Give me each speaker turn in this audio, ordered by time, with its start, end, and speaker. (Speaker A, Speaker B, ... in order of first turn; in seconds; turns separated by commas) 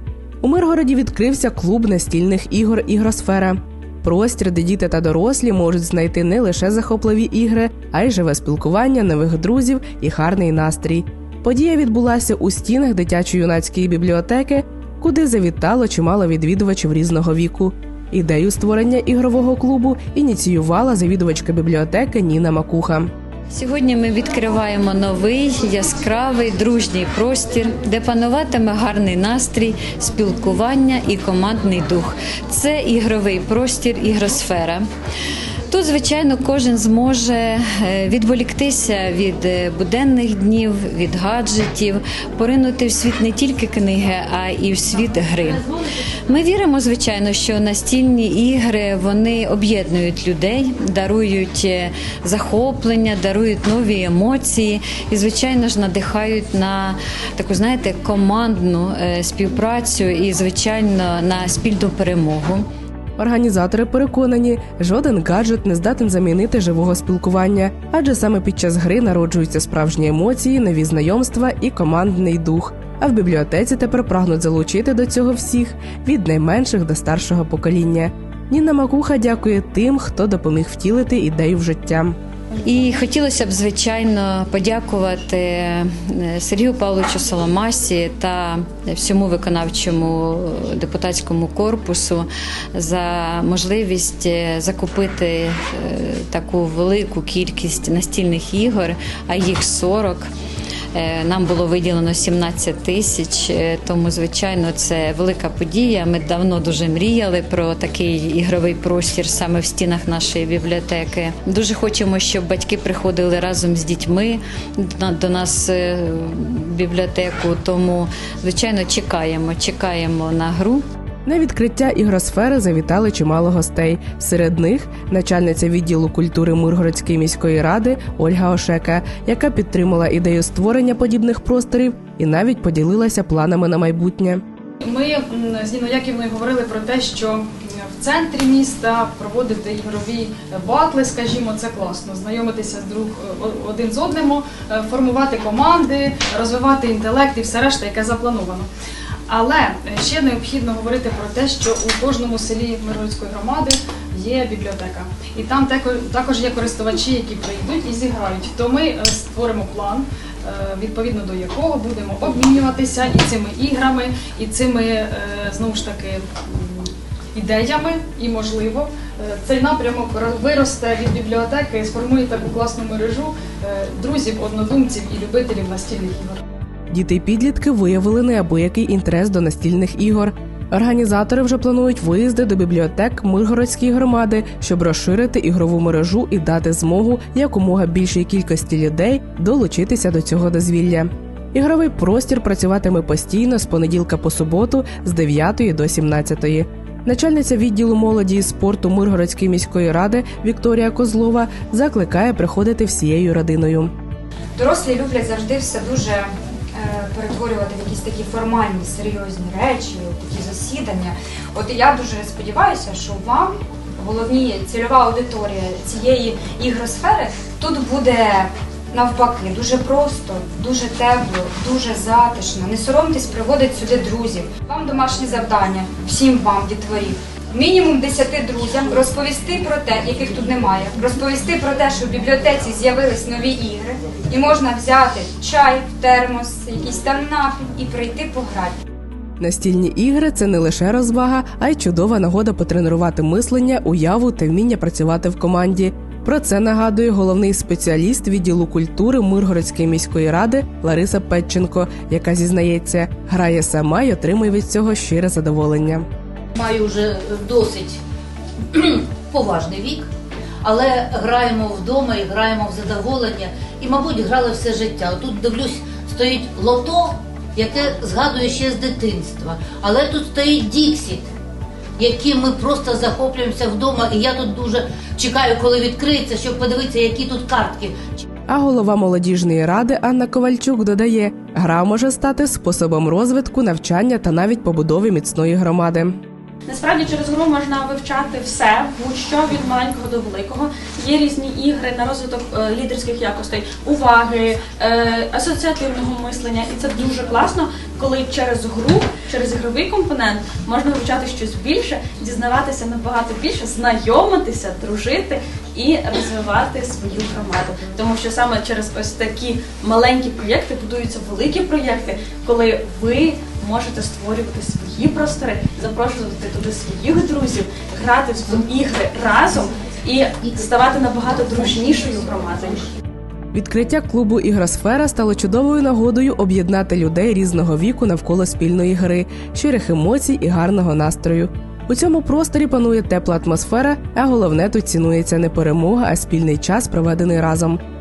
Speaker A: 0.4-23.1, Speaker B: 23.5-34.9, Speaker B: 35.7-45.6, Speaker B: 46.3-62.6, Speaker A: 63.2-82.2, Speaker B: 82.6-100.3, Speaker B: 100.9-120.8, Speaker A: 121.3-134.4, Speaker C: 134.8-148.7, Speaker C: 149.3-176.4, Speaker A: 176.9-203.9, Speaker D: 204.6-238.8, Speaker A: 239.4-256.1, Speaker E: 256.6-258.0, Speaker E: 258.7-260.1, Speaker E: 260.6-271.3, Speaker E: 272.0-278.3, Speaker A: 278.5-286.2, Speaker F: 286.7-322.9, Speaker A: 323.5-337.8